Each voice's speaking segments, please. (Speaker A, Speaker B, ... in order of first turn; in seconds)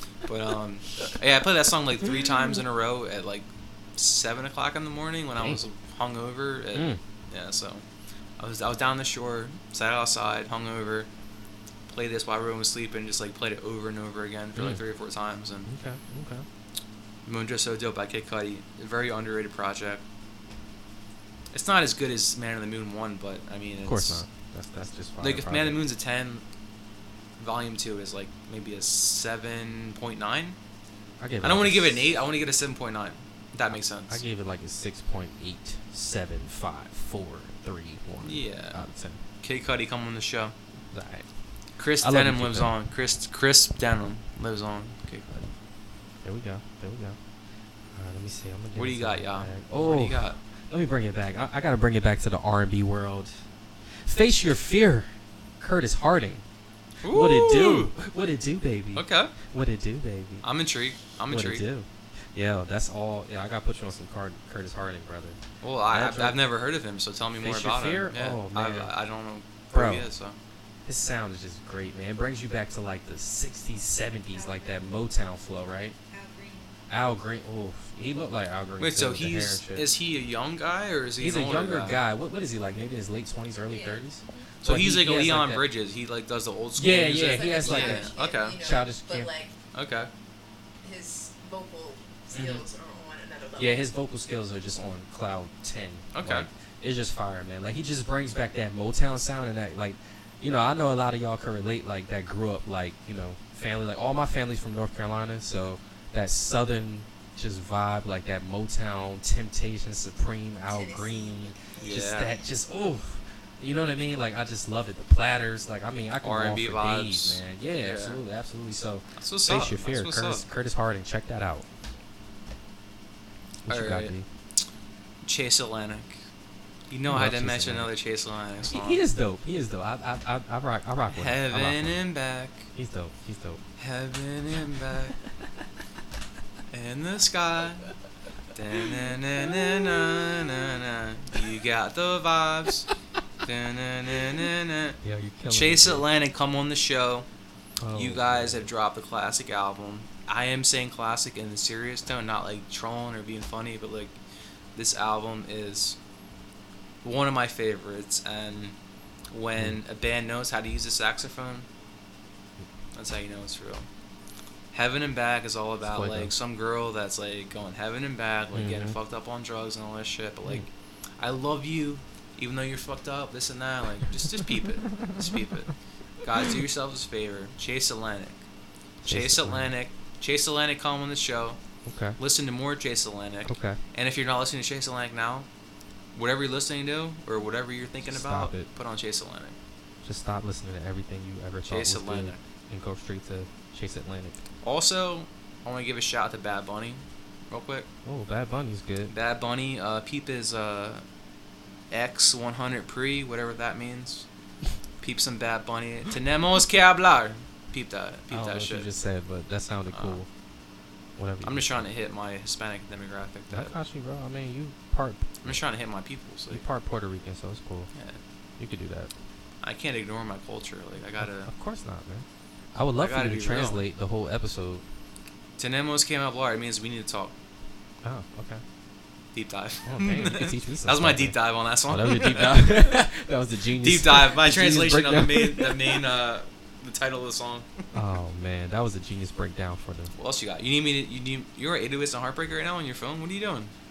Speaker A: 0.2-7.8, 8.4-11.1, 11.9-15.7, 17.2-20.0, 21.5-24.2, 25.2-26.4, 27.4-30.6, 31.4-34.2, 38.2-38.8, 39.4-40.5, 41.8-45.4, 48.7-50.4, 57.0-57.9, 58.9-59.3, 60.4-61.6, 65.6-70.3, 78.8-82.0, 84.6-88.6, 89.7-90.1, 96.1-96.5, 111.8-112.3, 116.2-118.2, 119.2-120.5, 123.7-124.1, 125.2-126.2, 126.9-129.0, 131.1-132.7, 133.8-135.1, 136.7-137.9, 138.5-142.9, 143.4-147.2, 147.9-154.2, 154.7-156.0, 157.0-158.8, 159.3-161.7, 162.9-163.9, 164.7-178.4, 179.1-181.6, 182.2-185.5, 186.1-189.6, 191.7-192.4, 194.6-197.9, 199.1-201.0, 201.9-204.3, 205.0-208.9, 209.9-210.2, 211.4-213.7, 215.4-216.6, 217.9-218.2, 219.6-221.5, 223.0-223.8, 225.6-227.3, 229.3-233.0, 233.8-237.9, 240.1-243.7
Speaker B: 6.7-7.0, 14.6-14.8, 15.7-16.4, 23.8-25.8, 31.2-32.1, 34.1-39.2, 40.9-41.3, 42.0-42.7, 46.2-47.2, 47.9-53.3, 54.0-55.1, 55.6-56.4, 57.0-60.4, 61.3-65.4, 65.9-66.4, 67.4-68.9, 69.7-70.1, 70.8-76.0, 76.9-79.9, 81.2-85.6, 86.8-89.3, 92.3-92.6, 93.6-121.6, 123.7-124.2, 127.1-127.9, 128.6-132.0, 132.7-133.6, 139.5-140.0, 145.0-146.1, 147.8-148.7, 165.8-166.3, 168.5-168.9, 179.0-179.7, 181.8-182.2, 183.4-183.8, 188.0-188.7, 190.0-194.4, 198.0-199.1, 208.3-210.3, 211.2-211.8, 213.5-215.6, 216.5-217.9, 218.6-219.1, 221.2-224.8, 228.0-228.6, 229.8-236.0, 237.9-240.1
Speaker C: 74.3-74.9, 76.1-76.8, 83.7-84.5, 87.1-89.5, 90.8-93.9, 110.7-112.1